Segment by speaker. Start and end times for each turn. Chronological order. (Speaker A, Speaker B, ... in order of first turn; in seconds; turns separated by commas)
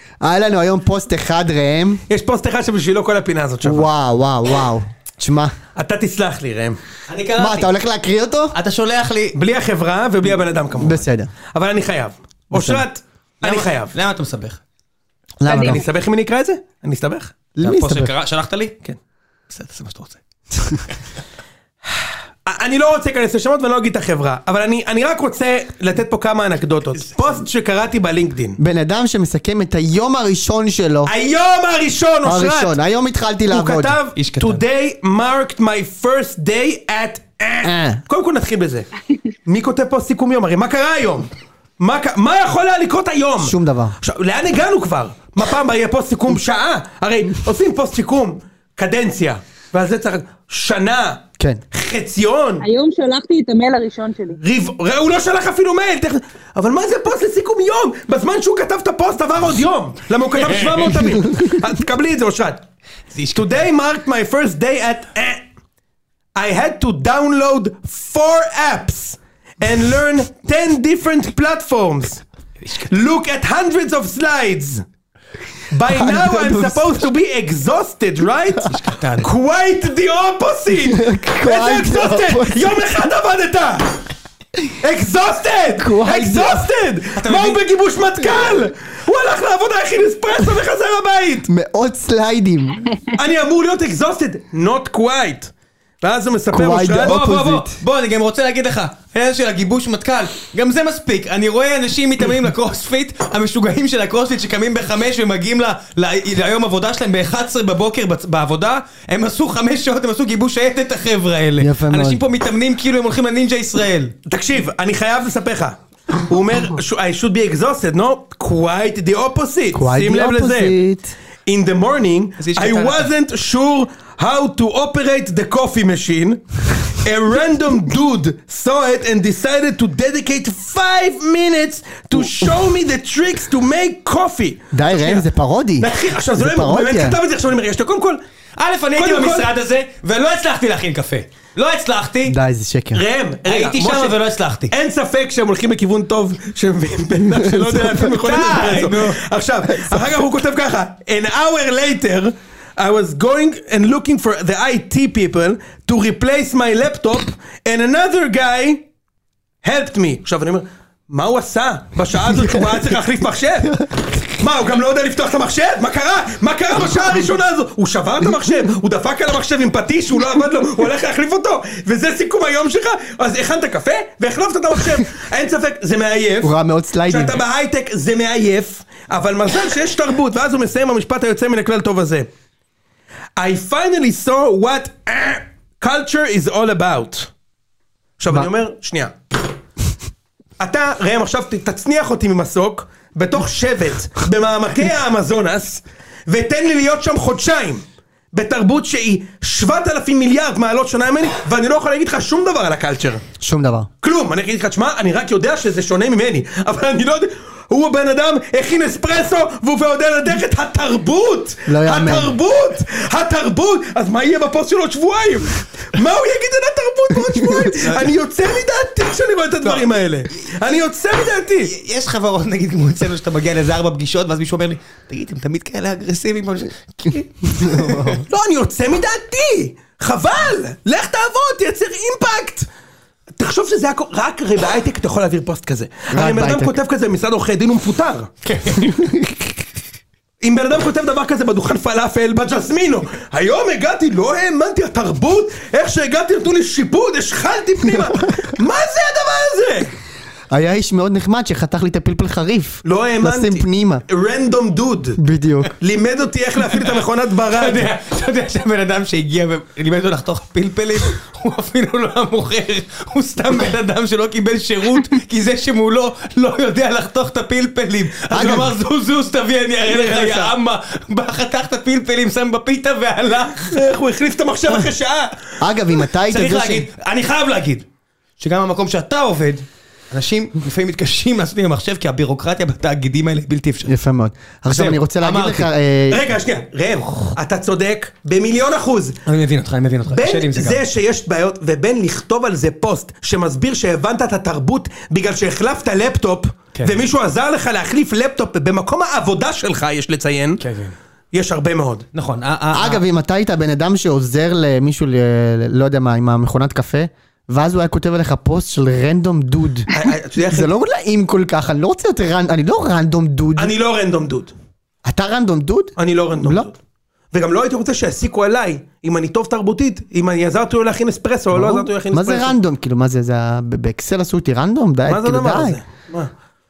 Speaker A: 0.2-2.0, Speaker B: 2.1-3.9, Speaker A: 3.6-5.5, Speaker B: 5.7-6.8, Speaker C: 7.1-7.7, Speaker A: 7.4-8.6, Speaker C: 8.5-9.4, Speaker B: 9.3-13.9, Speaker A: 10.8-11.3, Speaker A: 12.5-12.8, Speaker C: 13.4-14.6, Speaker A: 15.4-15.8, Speaker D: 15.4-15.8, Speaker B: 15.6-17.3, Speaker A: 17.6-18.1, Speaker C: 17.6-18.8, Speaker C: 19.5-20.9, Speaker B: 22.4-28.6, Speaker A: 28.6-31.1, Speaker B: 31.1-32.7, Speaker A: 32.2-34.0, Speaker B: 33.5-38.9, Speaker C: 34.1-34.6, Speaker A: 37.6-38.0, Speaker B: 39.5-52.6, Speaker A: 43.4-44.0, Speaker D: 52.6-54.4, Speaker B: 54.4-62.6, Speaker C: 60.4-61.0, Speaker C: 63.1-63.5, Speaker B: 63.3-65.4, Speaker B: 66.3-72.2, Speaker C: 72.6-72.9, Speaker B: 72.8-74.8, Speaker B: 75.7-83.9, Speaker A: 75.9-77.0, Speaker C: 78.7-79.3, Speaker A: 80.9-82.8, Speaker B: 84.8-91.5, Speaker A: 85.8-86.7, Speaker C: 87.1-87.6, Speaker A: 91.5-92.9, Speaker B: 93.1-97.6, Speaker A: 96.5-97.8, Speaker C: 97.1-114.1, Speaker A: 111.6-112.2, Speaker B: 114.3-120.7, Speaker A: 119.7-121.1, Speaker B: 121.5-135.2, Speaker C: 122.4-123.1, Speaker A: 134.7-137.2, Speaker B: 135.8-138.2, Speaker C: 138.6-142.4, Speaker B: 139.0-139.5, Speaker A: 142.2-143.0, Speaker B: 142.9-144.2, Speaker C: 143.4-144.7, Speaker B: 144.7-158.8, Speaker A: 147.2-148.1, Speaker C: 148.1-149.2, Speaker B: 159.6-163.8, Speaker A: 162.2-162.9, Speaker A: 163.6-164.4, Speaker B: 164.4-176.5, Speaker A: 176.4-177.4, Speaker B: 177.1-182.3, Speaker B: 183.4-187.3, Speaker B: 188.2-189.2, Speaker B: 190.6-203.2, Speaker A: 203.4-203.9, Speaker B: 204.0-221.7, Speaker A: 211.7-212.3, Speaker A: 217.3-217.7, Speaker C: 217.8-218.1, Speaker C: 221.6-228.2, Speaker A: 227.5-228.2, Speaker B: 228.3-232.7, Speaker B: 233.3-238.3, Speaker A: 236.1-236.8, Speaker C: 238.4-238.8, Speaker A: 238.9-239.4, Speaker B: 240.4-249.9, Speaker A: 247.8-248.5, Speaker A: 250.5-254.0, Speaker B: 252.8-255.2, Speaker A: 255.2-255.7, Speaker B: 255.8-257.9, Speaker C: 256.7-273.8, Speaker A: 268.3-268.7, Speaker B: 268.3-268.7, Speaker B: 269.9-270.5, Speaker B: 273.7-275.5, Speaker A: 275.6-276.9, Speaker C: 276.3-277.8, Speaker C: 278.4-283.9, Speaker A: 283.9-286.2, Speaker C: 284.7-285.7, Speaker B: 286.1-289.2, Speaker C: 289.2-290.8, Speaker B: 290.1-300.6, Speaker C: 296.7-297.0, Speaker C: 300.6-300.9, Speaker B: 301.3-302.1, Speaker C: 302.1-303.0, Speaker A: 302.7-313.7, Speaker B: 309.9-310.7, Speaker B: 313.6-314.5, Speaker A: 315.0-316.7, Speaker B: 316.0-316.8, Speaker B: 317.3-322.6, Speaker A: 321.5-325.8, Speaker B: 325.1-326.3